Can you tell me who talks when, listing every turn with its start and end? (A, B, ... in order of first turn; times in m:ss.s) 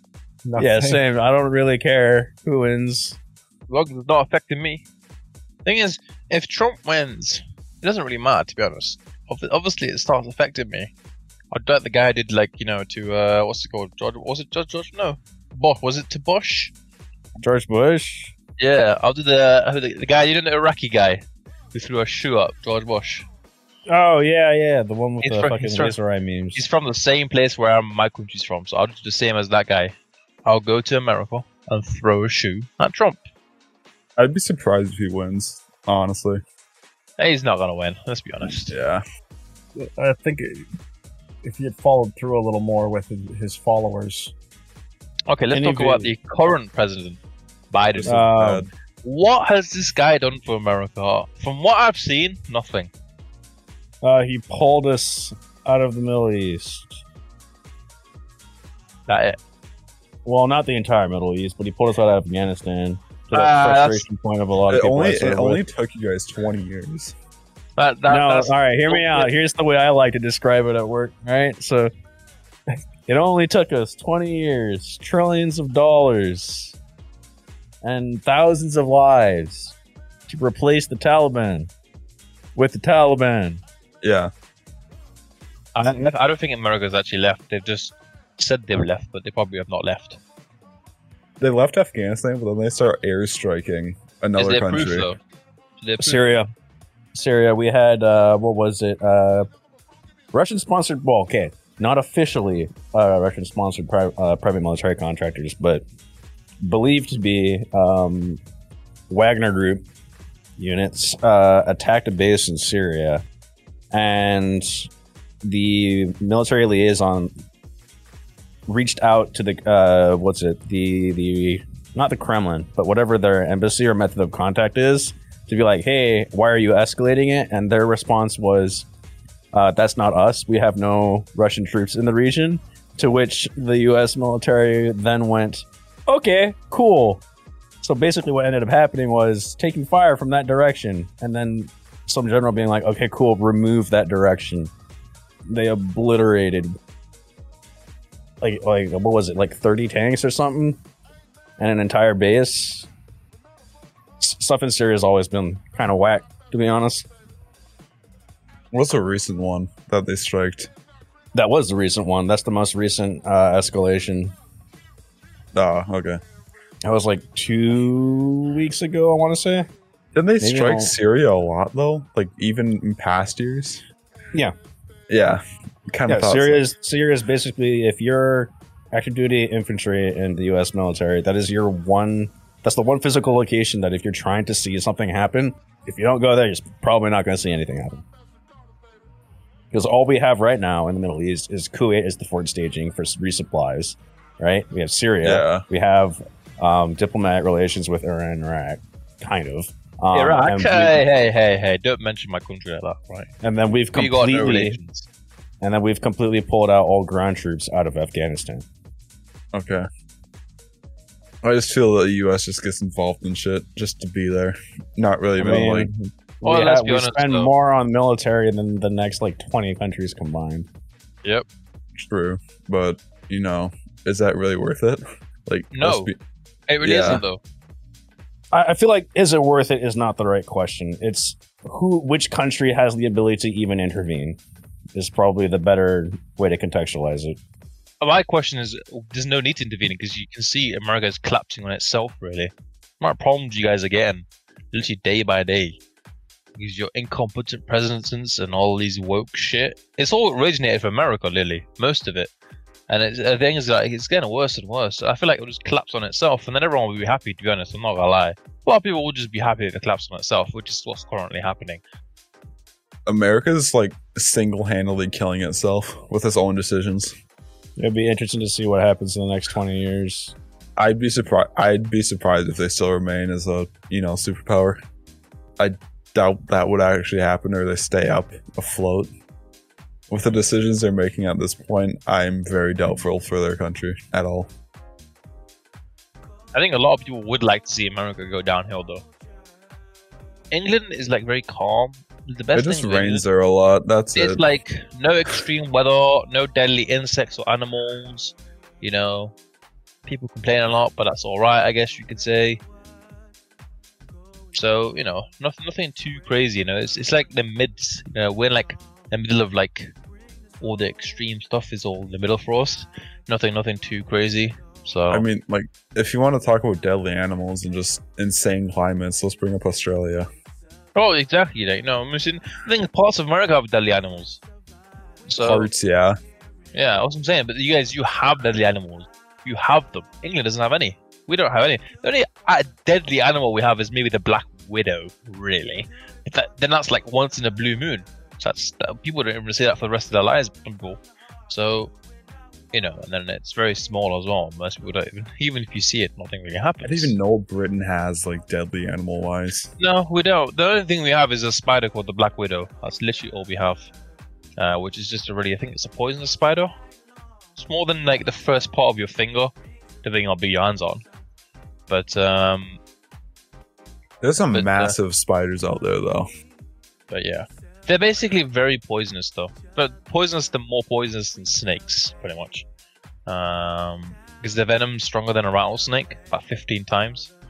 0:00.4-0:01.0 A
0:00.6-0:03.2 B
0:03.7-0:04.8 C
0:05.6-0:10.9 C
0:11.5-0:16.7 C
0:17.4-0:18.3 B
0:18.6-0:21.2 C
0:21.7-0:23.3 C
0:23.9-0:26.6 B
0:25.2-0:26.0 C
0:26.5-0:29.9 C
0:30.4-0:33.2 C
0:34.2-0:36.4 D
0:37.2-0:38.8 C
0:38.5-0:39.0 D
0:39.8-0:40.6 A
0:41.4-0:44.3 A
0:45.3-0:47.2 C
0:45.5-0:46.1 B
0:47.7-0:52.9 C
0:47.9-0:48.7 D
0:48.0-0:48.6 B
0:54.0-0:57.0 B
0:59.1-0:59.4 C
1:00.2-1:05.6 B
1:03.3-1:04.0 C
1:04.7-1:07.1 D
1:07.8-1:09.3 C
1:08.1-1:11.9 B
1:13.0-1:16.8 B
1:17.8-1:19.7 B
1:20.3-1:21.7 B
1:22.5-1:23.6 B
1:24.0-1:24.3 D
1:25.7-1:30.2 C
1:31.4-1:35.1 D
1:34.4-1:35.2 C
1:35.8-1:36.3 C
1:36.0-1:36.5 B
1:37.1-1:39.5 B
1:40.3-1:45.8 B
1:46.6-1:48.4 B
1:49.1-1:49.8 B
1:50.6-1:53.2 B
1:53.9-1:54.9 B
1:55.4-1:57.3 B
1:58.7-2:08.9 B
2:09.5-2:17.2 B
2:17.8-2:24.7 B
2:25.5-2:26.8 B
2:28.4-2:30.8 B
2:31.6-2:32.9 B
2:34.2-2:37.1 B
2:38.7-2:40.7 D
2:41.3-2:44.3 B
2:45.5-2:46.2 D
2:46.8-2:49.7 B
2:50.1-2:53.8 D
2:50.4-2:50.9 B
2:55.1-2:56.6 D
2:56.1-3:08.0 B
3:09.7-3:21.1 B
3:15.2-3:15.6 D
3:20.1-3:23.3 C
3:23.4-3:24.8 B
3:23.9-3:25.1 C
3:25.6-3:28.6 B
3:29.5-3:29.8 D
3:31.4-3:35.9 D
3:35.4-3:40.7 B
3:36.4-3:37.5 C
3:42.0-3:46.2 D
3:45.7-3:46.1 C
3:46.7-3:47.4 C
3:46.8-3:47.2 D
3:48.5-3:54.4 B
3:54.9-3:57.4 B
3:58.0-4:05.8 C
4:06.6-4:12.3 C
4:12.9-4:21.8 C
4:23.0-4:27.1 D
4:27.8-4:30.3 B
4:30.8-4:34.8 D
4:35.6-4:39.1 D
4:40.1-4:44.5 D
4:46.5-4:49.0 C
4:50.5-4:53.2 C
4:52.5-4:54.4 D
4:54.1-4:59.3 C
5:00.0-5:02.6 C
5:04.5-5:09.9 C
5:10.6-5:15.2 C
5:15.1-5:20.3 D
5:20.9-5:24.4 C
5:25.3-5:25.7 C
5:25.4-5:26.2 D
5:26.7-5:41.9 C
5:42.7-5:47.1 C
5:46.8-5:49.7 D
5:49.8-5:53.9 C
5:54.6-5:56.7 C
5:57.5-5:59.5 C
6:00.0-6:01.0 C
6:01.9-6:02.8 C
6:04.2-6:06.3 D
6:04.5-6:04.9 C
6:07.1-6:12.6 C
6:13.2-6:17.3 C